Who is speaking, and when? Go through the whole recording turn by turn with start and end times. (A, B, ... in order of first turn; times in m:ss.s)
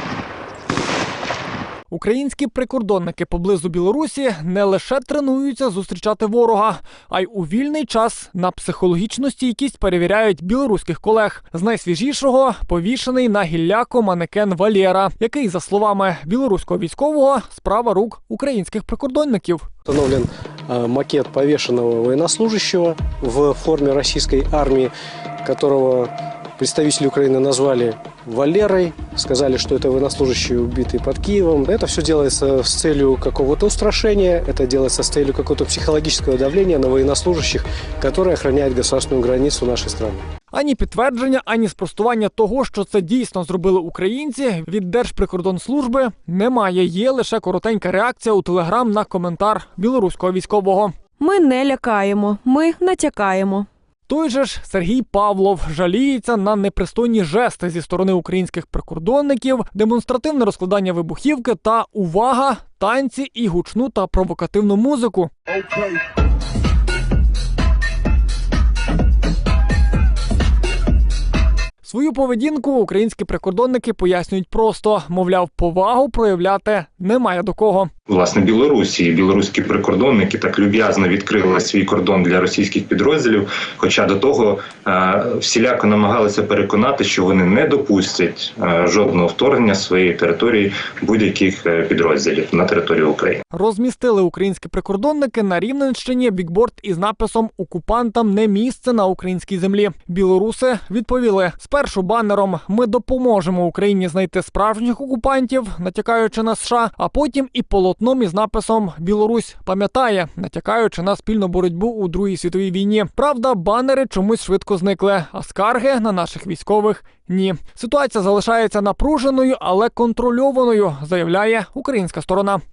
0:01.9-0:19.7 A
0:19.8-0:24.9 B
0:25.4-0:40.2 B
0:40.5-0:51.0 A
0:51.2-0:53.7 C
0:54.1-1:05.3 A
1:11.8-1:17.9 A
1:18.1-1:33.4 D
1:33.5-2:02.6 A